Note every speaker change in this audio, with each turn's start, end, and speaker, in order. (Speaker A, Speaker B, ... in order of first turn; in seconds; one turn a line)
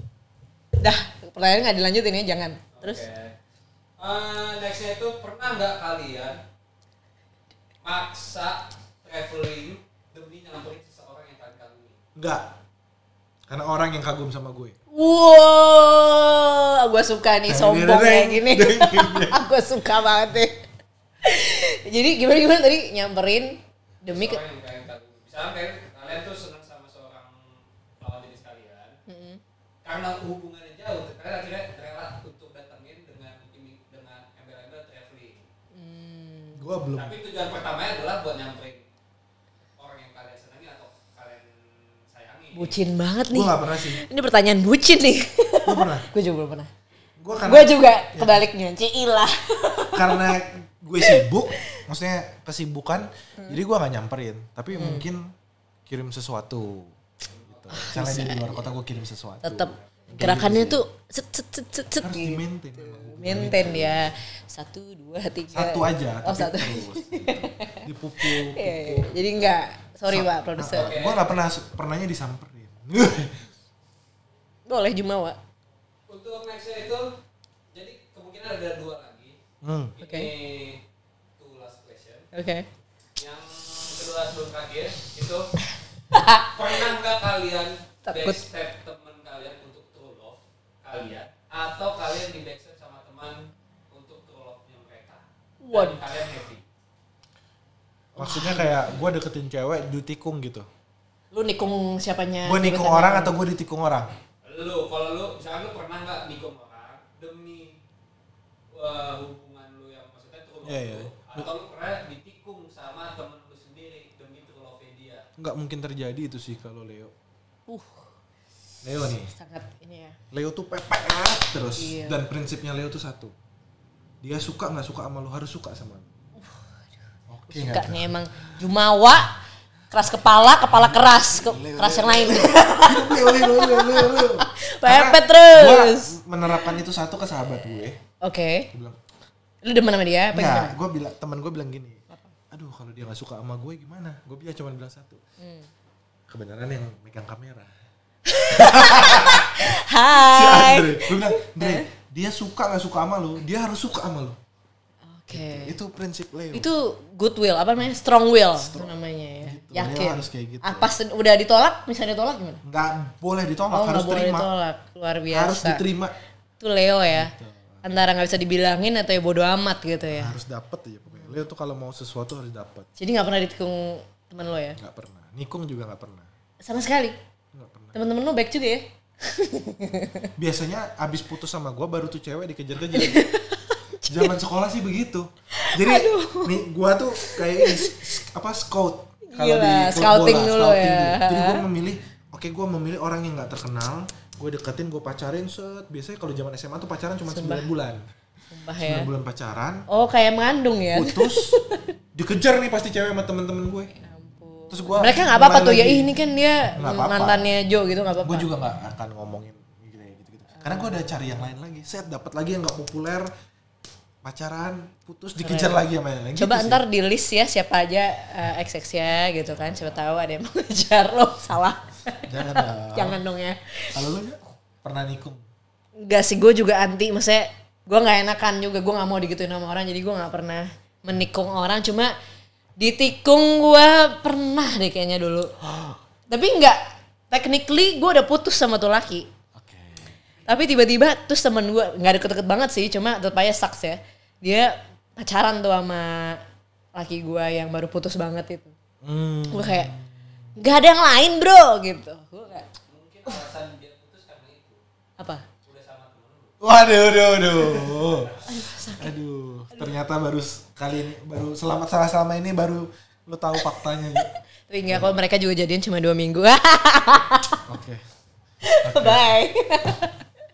Speaker A: 0.8-3.0
Speaker B: 2.7-3.3
Speaker B: 4.0-6.4
Speaker B: 7.8-12.0
Speaker C: 12.2-12.6
Speaker C: 13.5-14.7
Speaker A: 14.9-20.6
Speaker C: 17.5-19.4
Speaker A: 21.2-24.4
Speaker B: 24.1-27.4
Speaker B: 28.0-29.0
Speaker A: 29.1-29.4
Speaker B: 29.8-35.5
Speaker A: 35.7-36.7
Speaker C: 36.5-37.2
Speaker B: 37.0-38.9
Speaker B: 39.8-41.5
Speaker B: 42.1-42.8
Speaker A: 42.5-46.7
Speaker C: 43.3-44.0
Speaker C: 45.6-46.1
Speaker C: 47.2-48.4
Speaker A: 47.4-50.3
Speaker C: 49.9-55.3
Speaker A: 54.7-55.0
Speaker C: 55.9-56.9
Speaker B: 57.4-57.9
Speaker C: 57.5-60.8
Speaker A: 57.7-58.6
Speaker A: 59.4-71.0
Speaker C: 62.0-64.1
Speaker C: 65.5-69.1
Speaker C: 70.1-73.5
Speaker B: 70.8-71.2
Speaker A: 74.7-75.4
Speaker B: 76.1-77.1
Speaker B: 77.7-79.4
Speaker C: 79.6-79.9
Speaker B: 80.0-80.8
Speaker A: 80.0-80.3
Speaker B: 81.4-82.3
Speaker A: 82.3-82.7
Speaker B: 83.2-85.5
Speaker A: 86.1-86.5
Speaker B: 86.4-96.6
Speaker A: 88.0-88.4
Speaker A: 95.6-96.0
Speaker A: 98.2-98.9
Speaker C: 98.2-100.7
Speaker A: 101.3-103.3
Speaker C: 102.4-104.1
Speaker B: 104.4-107.8
Speaker B: 108.7-115.2
Speaker C: 110.6-111.5
Speaker C: 115.4-117.1
Speaker A: 117.7-118.1
Speaker C: 118.8-119.3
Speaker A: 119.3-120.2
Speaker C: 120.3-123.3
Speaker A: 121.8-122.2
Speaker C: 124.2-126.1
Speaker C: 127.3-128.2
Speaker A: 127.5-129.3
Speaker A: 129.9-136.7
Speaker C: 131.3-138.0
Speaker A: 138.2-138.7
Speaker C: 138.7-139.0
Speaker A: 139.6-140.7
Speaker C: 140.3-145.2
Speaker A: 145.4-145.7
Speaker C: 146.3-147.7
Speaker A: 148.3-151.9
Speaker C: 148.5-154.4
Speaker A: 155.1-155.7
Speaker C: 155.3-156.7
Speaker A: 156.5-162.6
Speaker C: 158.6-160.9
Speaker C: 162.6-164.5
Speaker A: 163.7-165.8
Speaker C: 165.3-166.1
Speaker A: 166.6-167.3
Speaker C: 167.1-167.8
Speaker A: 167.8-170.3
Speaker C: 170.1-172.9
Speaker A: 173.0-174.8
Speaker C: 174.8-176.3
Speaker A: 176.6-177.2
Speaker C: 177.5-177.9
Speaker A: 177.9-180.3
Speaker C: 180.3-183.2
Speaker A: 182.9-184.3
Speaker C: 184.0-198.0
Speaker A: 185.5-186.6
Speaker A: 187.2-188.1
Speaker A: 189.2-191.6
Speaker A: 197.3-197.7
Speaker A: 198.5-199.1
Speaker C: 198.8-199.8
Speaker A: 199.9-201.8
Speaker C: 200.9-201.6
Speaker C: 202.1-203.9
Speaker A: 203.9-208.5
Speaker C: 204.7-206.1
Speaker C: 206.8-207.5
Speaker C: 208.2-213.3
Speaker A: 210.6-210.8
Speaker C: 214.2-216.8
Speaker A: 215.4-215.8
Speaker A: 216.3-223.9
Speaker C: 222.3-223.2
Speaker C: 223.9-225.4
Speaker A: 226.0-232.1
Speaker A: 232.8-235.5
Speaker C: 235.6-236.0
Speaker A: 236.3-239.3
Speaker C: 239.6-240.1
Speaker A: 240.5-246.4
Speaker A: 246.9-248.7
Speaker C: 249.0-250.1
Speaker A: 249.5-249.9
Speaker A: 250.6-252.7
Speaker B: 252.9-254.8
Speaker A: 255.2-255.4
Speaker B: 255.6-256.6
Speaker C: 256.6-258.4
Speaker B: 258.1-258.4
Speaker A: 258.5-259.1
Speaker C: 259.0-264.3
Speaker A: 264.2-267.6
Speaker C: 264.9-265.1
Speaker C: 267.6-268.0
Speaker A: 268.6-270.2
Speaker C: 268.8-269.4